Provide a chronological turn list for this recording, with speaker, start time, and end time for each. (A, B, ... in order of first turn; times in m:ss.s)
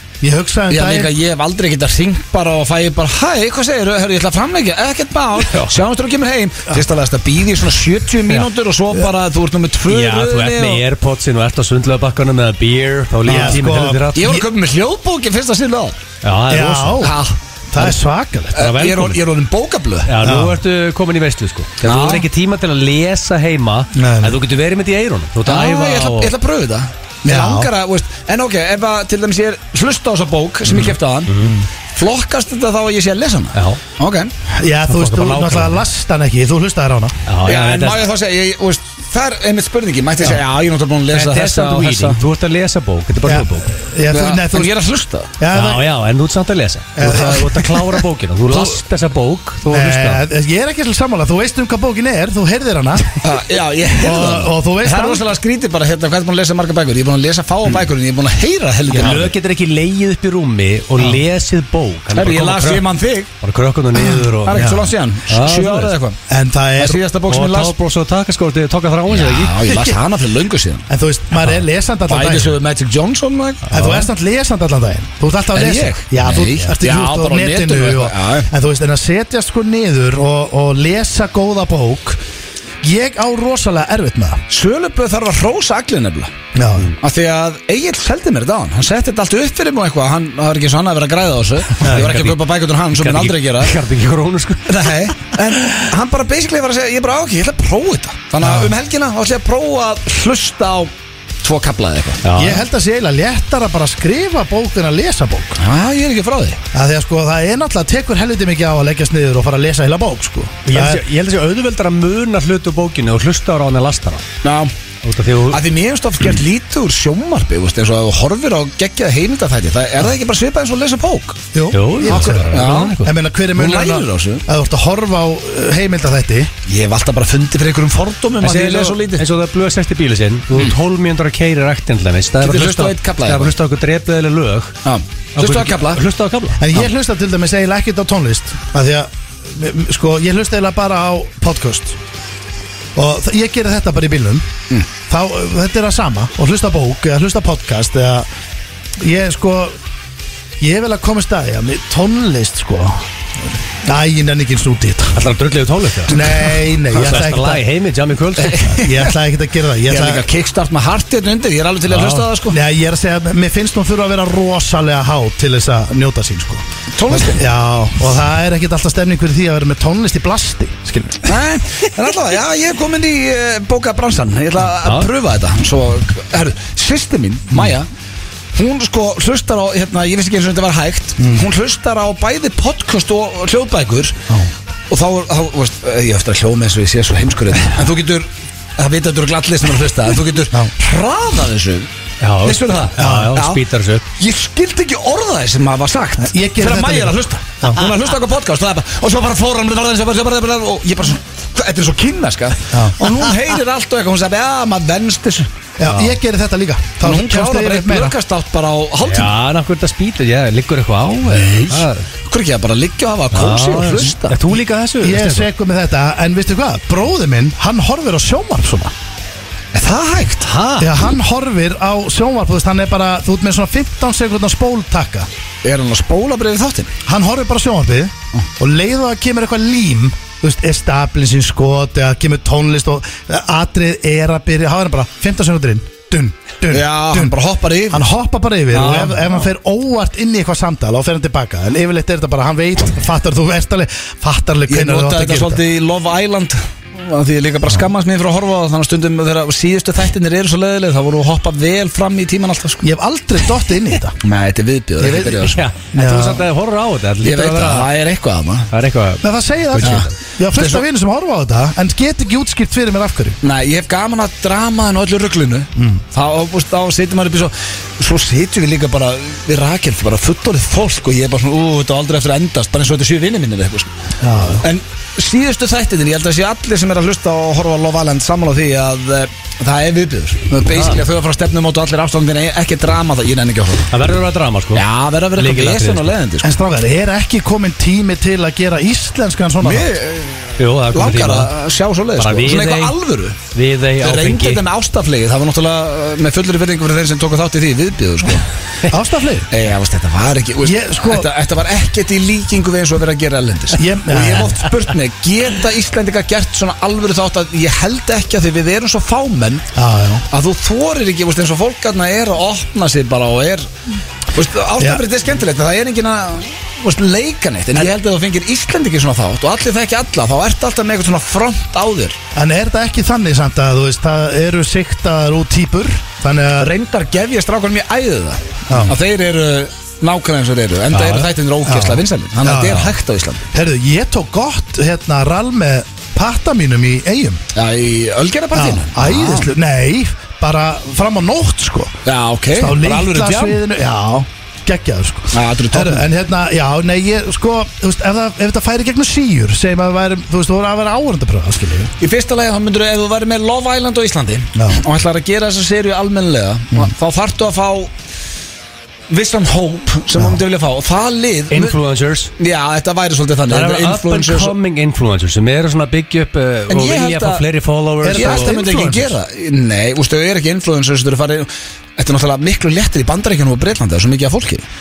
0:00.2-0:01.1 A
0:00.7-0:10.8 B
0:05.4-0:05.8 C
0:09.9-0:14.3 C
0:13.2-0:14.4 A
0:13.3-0:13.6 B
0:14.2-0:16.0 B
0:16.2-0:17.0 C
0:16.5-0:17.2 A
0:17.0-0:17.9 B
0:17.7-0:18.7 A
0:18.6-0:19.2 C
0:18.6-0:20.1 B
0:20.1-0:26.3 C
0:20.2-0:20.6 A
0:21.8-0:22.3 B
0:24.0-0:24.4 A
0:25.4-0:34.3 B
0:27.3-0:27.7 A
0:31.3-0:31.6 C
0:33.6-0:33.8 C
0:34.5-0:37.2 A
0:34.9-0:35.8 C
0:37.3-0:38.0 C
0:37.4-0:42.2 B
0:41.1-0:43.7 C
0:43.2-0:44.7 A
0:44.1-0:45.3 B
0:45.4-0:45.9 A
0:45.5-0:50.2 C
0:47.0-0:47.6 A
0:47.0-0:47.7 B
0:49.7-0:53.2 A
0:53.2-0:59.3 B
0:53.9-0:55.2 A
0:58.9-1:02.9 C
0:58.9-0:59.2 A
1:02.1-1:03.3 B
1:03.4-1:04.6 C
1:04.0-1:06.2 B
1:04.5-1:04.9 A
1:05.3-1:05.9 C
1:06.3-1:07.0 A
1:06.8-1:07.8 B
1:07.3-1:09.6 C
1:09.1-1:10.9 B
1:09.6-1:10.0 A
1:10.9-1:12.6 A
1:12.1-1:13.8 B
1:13.7-1:14.0 C
1:13.7-1:22.2 A
1:15.5-1:18.5 B
1:22.8-1:24.4 A
1:24.5-1:26.3 B
1:26.5-1:26.9 A
1:27.0-1:33.8 B
1:31.9-1:32.4 C
1:32.9-1:34.9 C
1:34.7-1:40.9 B
1:38.4-1:38.7 A
1:41.4-1:42.2 B
1:42.2-1:42.6 C
1:42.4-1:45.6 A
1:45.6-1:46.6 B
1:46.7-1:51.0 A
1:50.7-1:54.2 C
1:54.4-1:54.7 B
1:55.0-1:55.6 C
1:55.5-2:01.4 B
2:01.5-2:06.5 A
2:01.7-2:03.1 C
2:02.1-2:03.0 B
2:03.6-2:04.4 B
2:06.7-2:09.2 B
2:08.4-2:14.8 C
2:12.4-2:13.5 B
2:14.8-2:16.0 B
2:15.4-2:16.6 C
2:16.6-2:22.0 A
2:23.0-2:24.5 A
2:25.1-2:28.3 A
2:29.0-2:29.8 A
2:30.6-2:33.0 A
2:33.8-2:35.2 A
2:35.2-2:36.3 C
2:36.1-2:37.6 A
2:36.9-2:38.7 C
2:38.4-2:39.1 B
2:38.7-2:40.3 A
2:39.9-2:42.6 B
2:42.4-2:51.3 A
2:47.0-2:47.4 B
2:51.2-2:57.9 B
2:54.8-2:55.1 C
2:58.6-3:04.2 B
3:01.2-3:01.4 A
3:04.9-3:11.9 B
3:12.2-3:14.0 C
3:12.4-3:13.6 B
3:13.0-3:13.4 A
3:14.2-3:25.5 B
3:16.2-3:17.8 A
3:22.7-3:23.3 A
3:25.8-3:28.2 A
3:27.0-3:29.3 B
3:29.0-3:32.0 C
3:31.3-3:34.4 B
3:33.3-3:35.5 C
3:35.0-3:38.9 A
3:39.7-3:40.5 B
3:40.4-3:41.0 C
3:40.8-3:45.3 A
3:45.6-3:46.9 B
3:47.1-3:57.4 A
3:56.7-3:58.1 B
3:57.9-4:05.6 A
3:58.7-3:59.3 C
4:04.7-4:12.9 B
4:12.8-4:14.2 A
4:14.2-4:15.6 B
4:15.0-4:16.4 A
4:15.4-4:17.9 C
4:17.2-4:18.7 B
4:18.7-4:20.1 C
4:19.2-4:23.4 A
4:19.8-4:20.8 B
4:23.4-4:33.9 B
4:25.8-4:26.0 A
4:34.2-4:34.7 A
4:34.6-4:43.9 B
4:40.7-4:41.0 C
4:43.9-4:44.8 C
4:44.8-4:46.5 B
4:45.4-4:46.1 C
4:46.4-4:49.9 A
4:49.6-4:53.4 B
4:50.6-4:51.5 C
4:52.2-4:53.0 C
4:53.5-4:54.6 C
4:54.0-4:58.5 B
4:58.9-4:59.5 A
4:59.5-5:09.7 B
5:00.6-5:01.3 A
5:03.7-5:04.6 A
5:09.8-5:10.3 A
5:10.3-5:13.7 B
5:14.3-5:22.2 B
5:14.8-5:15.0 A
5:22.4-5:26.7 A
5:26.6-5:33.4 B
5:28.7-5:29.0 A
5:30.9-5:31.3 C
5:31.6-5:33.0 A
5:33.5-5:37.4 A
5:37.5-5:39.5 B
5:38.5-5:41.9 A
5:42.1-5:43.6 B
5:42.6-5:51.9 A
5:45.3-5:46.1 B
5:52.0-5:57.9 B
5:54.6-5:54.8 A
5:59.1-6:01.8 B
6:01.5-6:02.3 C
6:02.4-6:04.6 B
6:03.5-6:08.6 C
6:06.7-6:07.4 B
6:08.0-6:09.1 A
6:08.1-6:14.6 B